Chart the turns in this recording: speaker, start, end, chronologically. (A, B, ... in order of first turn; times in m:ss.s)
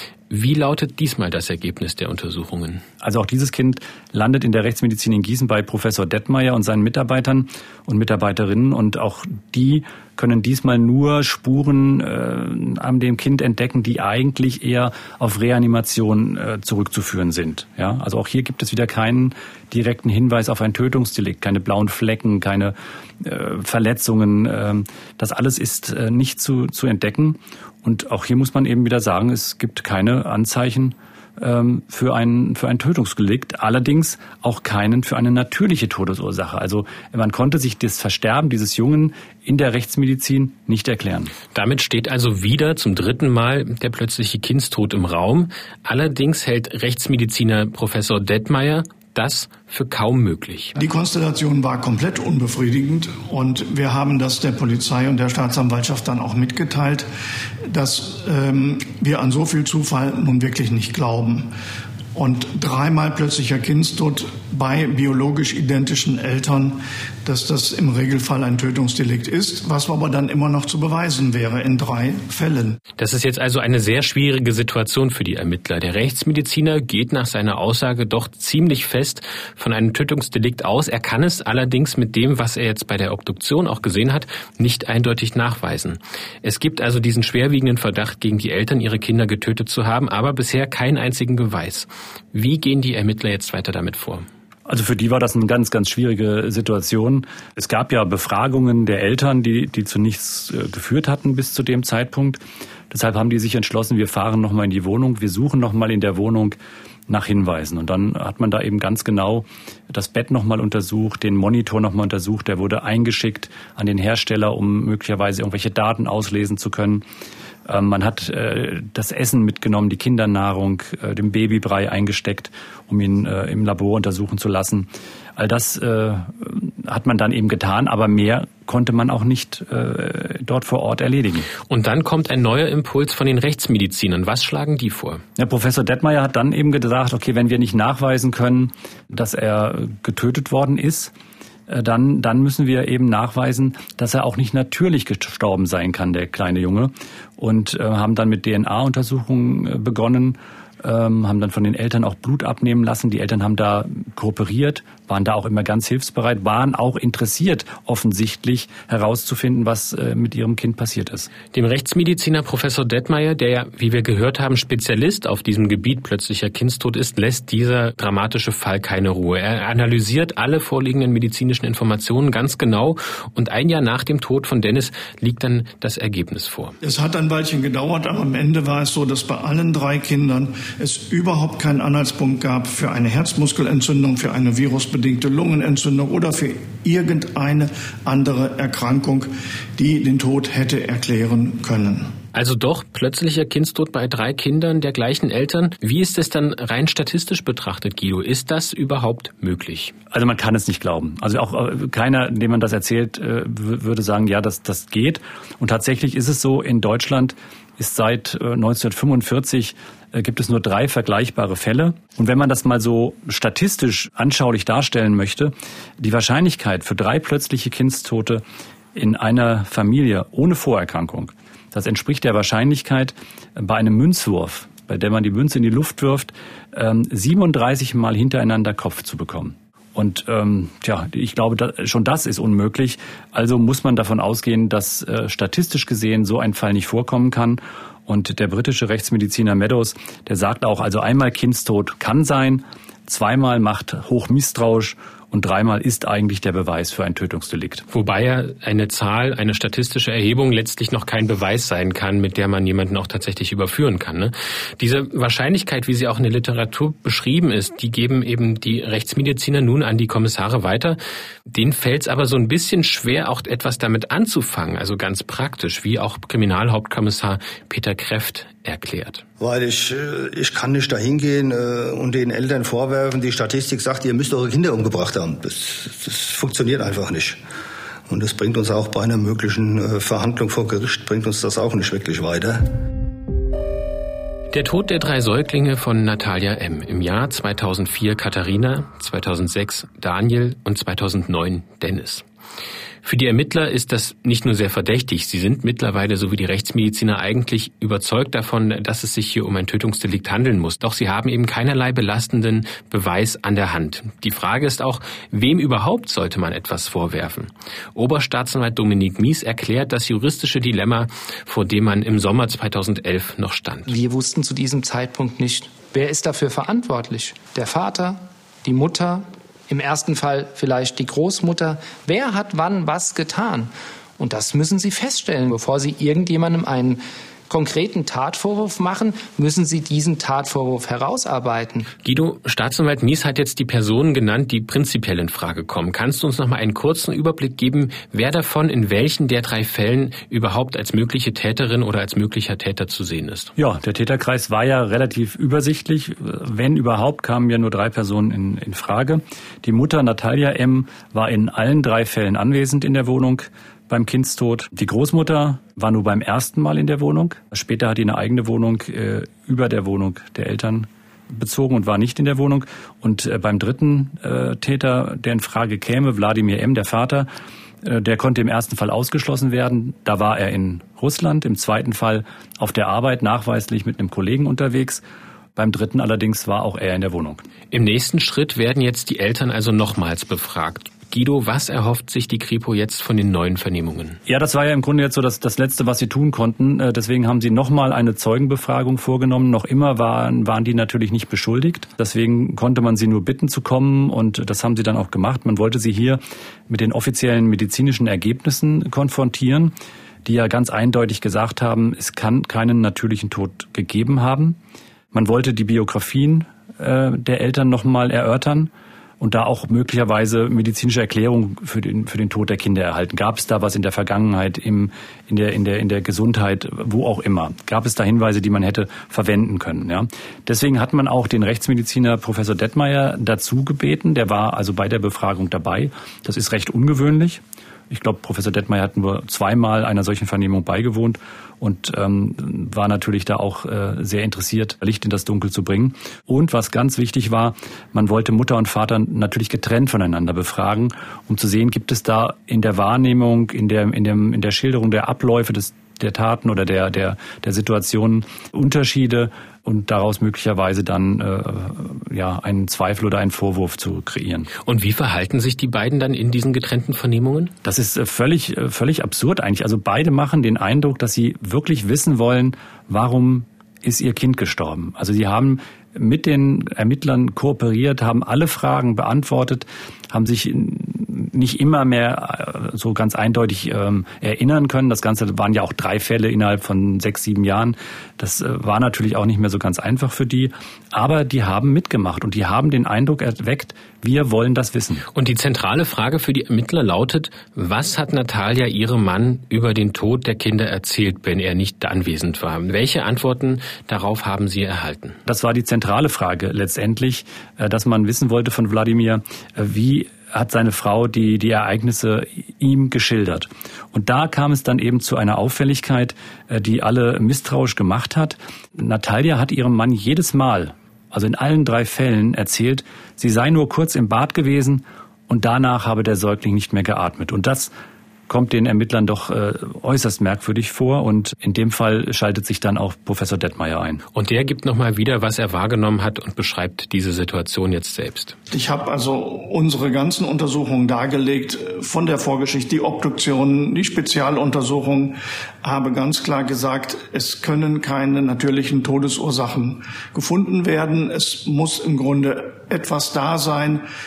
0:00.3-0:02.8 A
0:03.0-0:41.3 B
0:41.5-0:50.8 A
0:50.8-0:57.1 C
0:57.7-1:01.5 C
1:02.2-1:12.8 C
1:13.0-1:34.3 A
1:34.7-1:57.0 B
1:57.7-2:11.5 B
2:11.7-2:15.2 A
2:15.4-2:21.1 B
2:21.7-2:41.3 B
2:41.5-2:56.8 A
2:56.8-3:12.1 C
3:12.3-3:19.9 A
3:20.1-3:38.4 B
3:38.9-4:07.8 B
4:07.9-4:29.2 A
4:29.4-4:37.4 D
4:38.1-4:42.7 D
4:44.5-4:52.2 A
4:53.0-5:13.9 A
5:13.9-5:31.9 E
5:32.0-5:43.5 A
5:43.6-6:07.3 B
6:07.8-6:15.0 B
6:15.6-6:17.4 B
6:17.7-6:24.2 A
6:24.3-6:39.7 B
6:40.2-6:44.6 B
6:45.1-7:34.5 B
7:34.6-7:37.5 A
7:37.6-8:05.0 B
8:05.1-8:15.2 A
8:15.2-8:37.7 B
8:38.3-8:44.0 B
8:44.2-8:48.4 A
8:48.5-9:03.8 C